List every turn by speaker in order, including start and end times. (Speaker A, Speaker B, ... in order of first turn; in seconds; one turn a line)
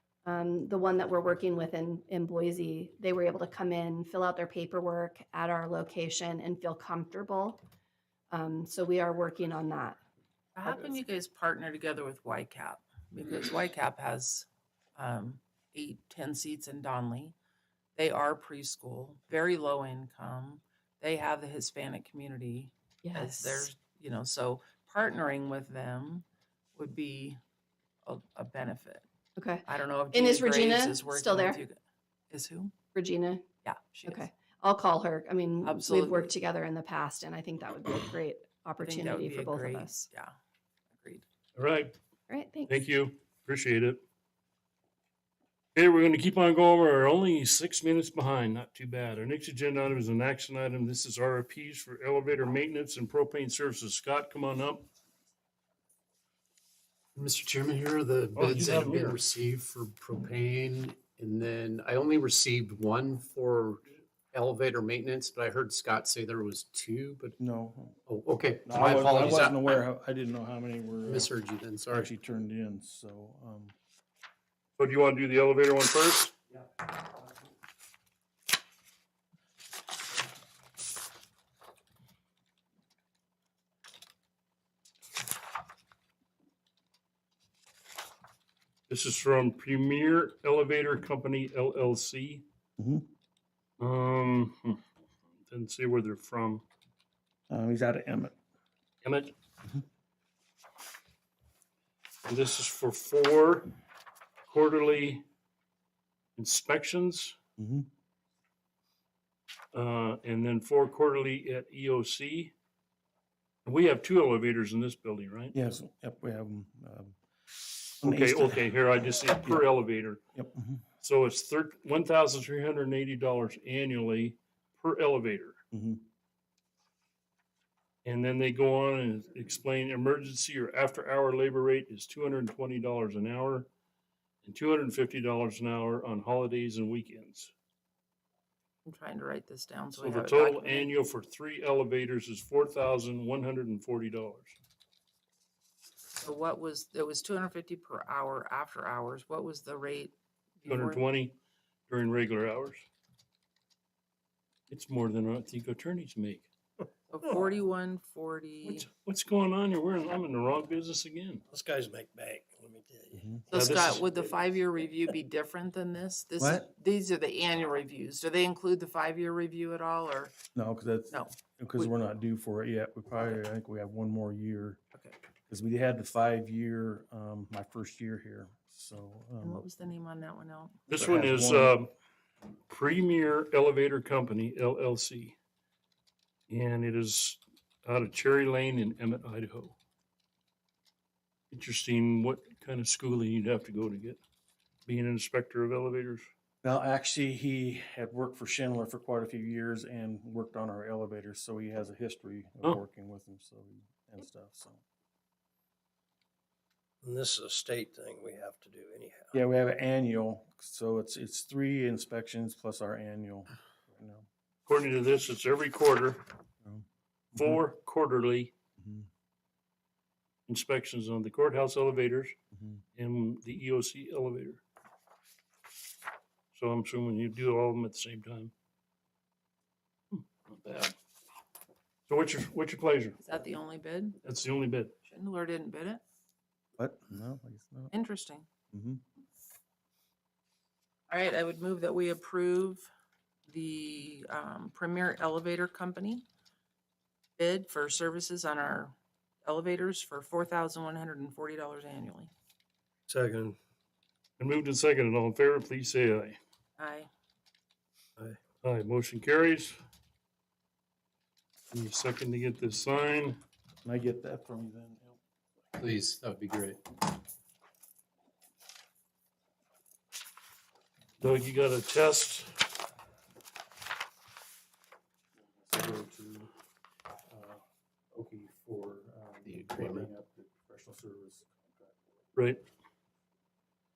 Speaker A: 0.2-7.6
Speaker A: 8.3-10.0
Speaker B: 10.6-17.4
Speaker B: 18.0-26.2
Speaker A: 23.0-23.7
Speaker B: 26.8-27.4
Speaker B: 28.1-29.1
Speaker A: 29.4-31.6
Speaker B: 29.6-31.8
Speaker B: 32.3-32.7
Speaker A: 32.9-33.5
Speaker B: 33.6-34.3
Speaker A: 34.0-40.1
Speaker B: 35.6-36.4
Speaker B: 38.8-40.3
Speaker C: 41.6-42.0
Speaker A: 42.3-42.8
Speaker C: 42.7-44.0
Speaker C: 45.8-54.9
Speaker D: 57.1-67.4
Speaker C: 58.4-59.2
Speaker E: 67.4-68.0
Speaker D: 68.1-69.8
Speaker E: 68.6-71.3
Speaker D: 71.0-72.1
Speaker E: 71.9-73.7
Speaker C: 74.8-76.3
Speaker C: 88.9-92.4
Speaker E: 92.8-93.1
Speaker C: 93.8-94.8
Speaker C: 95.5-96.6
Speaker E: 97.5-98.4
Speaker C: 99.0-99.3
Speaker C: 102.3-103.7
Speaker C: 104.5-105.2
Speaker C: 106.4-107.4
Speaker E: 107.6-107.9
Speaker C: 109.7-112.5
Speaker C: 113.7-115.5
Speaker E: 115.5-117.2
Speaker E: 117.7-119.7
Speaker C: 118.0-120.2
Speaker E: 120.3-120.8
Speaker C: 121.0-125.6
Speaker E: 125.7-126.0
Speaker C: 128.1-133.7
Speaker C: 134.4-137.5
Speaker B: 138.8-140.9
Speaker C: 140.0-144.6
Speaker B: 146.1-151.1
Speaker C: 150.7-151.3
Speaker C: 151.9-152.8
Speaker C: 154.7-156.5
Speaker B: 157.1-158.9
Speaker C: 158.7-161.4
Speaker F: 161.5-163.2
Speaker E: 163.1-163.4
Speaker B: 163.5-170.4
Speaker C: 163.5-164.0
Speaker E: 166.4-166.7
Speaker E: 170.6-174.8
Speaker B: 171.1-171.9
Speaker E: 175.5-179.6
Speaker B: 179.4-180.8
Speaker C: 180.9-181.9
Speaker E: 180.9-181.8
Speaker C: 182.7-185.3
Speaker C: 186.5-189.8
Speaker C: 191.5-194.2
Speaker C: 194.9-196.3
Speaker E: 196.6-204.8
Speaker F: 207.0-209.3
Speaker E: 209.3-214.3
Speaker C: 214.7-216.3
Speaker C: 217.3-218.5
Speaker E: 218.8-219.1
Speaker C: 220.5-222.3
Speaker E: 222.6-222.8
Speaker C: 223.0-224.6
Speaker C: 226.5-228.5
Speaker C: 230.1-230.9
Speaker C: 232.1-233.2
Speaker B: 233.2-234.2
Speaker C: 234.2-234.9
Speaker B: 235.0-236.0
Speaker E: 236.8-237.9
Speaker B: 237.9-238.5
Speaker E: 238.7-239.0
Speaker B: 241.1-242.9
Speaker B: 243.5-246.2
Speaker B: 247.4-252.3
Speaker F: 253.1-253.6
Speaker C: 254.4-256.4
Speaker B: 256.8-257.1
Speaker C: 258.6-259.8
Speaker C: 261.7-263.4
Speaker E: 263.8-265.2
Speaker D: 265.8-266.8
Speaker C: 271.2-272.5
Speaker E: 275.4-276.5
Speaker E: 277.3-282.2
Speaker D: 279.4-280.1
Speaker C: 282.4-282.6